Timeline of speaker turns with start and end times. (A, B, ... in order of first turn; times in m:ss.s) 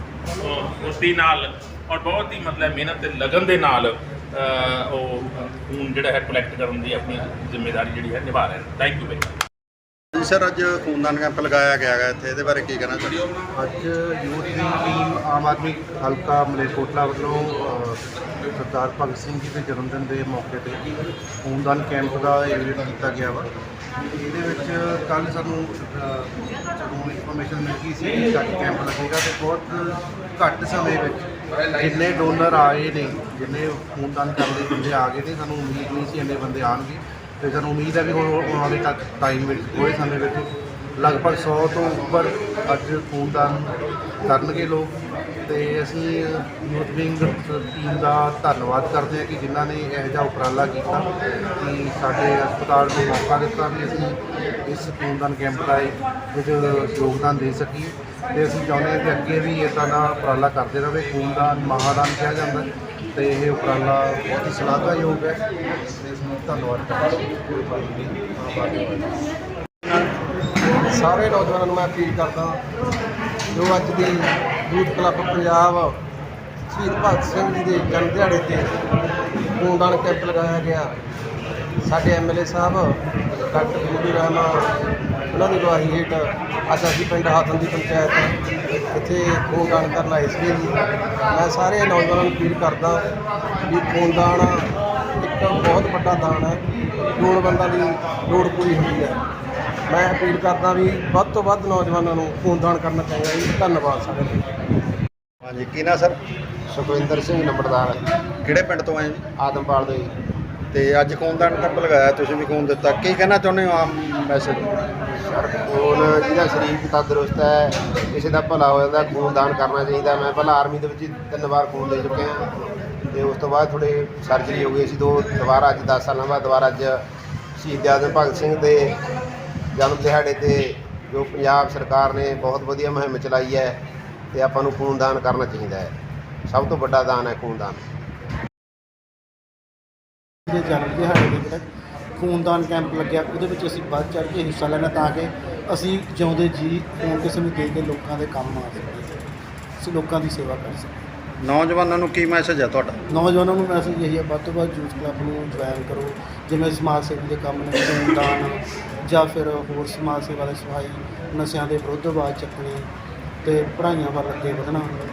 0:00.4-0:09.3 A
0:10.2-0:13.2 B
0:13.6-0:20.9 C
0:21.4-0:23.5 C
0:24.2-0:43.7 C
0:44.2-1:09.2 C
1:10.8-1:12.6 D
1:13.5-1:15.9 D
1:16.7-1:18.7 D
1:19.6-1:20.9 D
1:21.8-1:23.0 D
1:23.5-1:24.6 D
1:25.3-1:28.3 D
1:28.9-1:30.8 D
1:31.3-1:33.0 D
1:33.7-1:34.6 D
1:35.2-1:36.6 D
1:37.2-1:39.2 D
1:39.9-1:44.4 D
1:45.4-1:46.2 B
1:46.7-1:48.0 E
1:48.4-1:49.2 B
1:49.4-1:50.1 E
1:50.7-1:54.7 B
1:55.3-2:02.4 E
2:03.1-2:07.0 E
2:07.6-2:09.0 E
2:09.8-2:13.8 E
2:14.3-2:15.9 E
2:16.5-2:17.8 E
2:20.5-2:21.7 F
2:22.2-2:29.2 F
2:29.8-2:30.9 F
2:31.4-2:33.0 B
2:33.1-2:42.9 F
2:43.4-2:44.9 F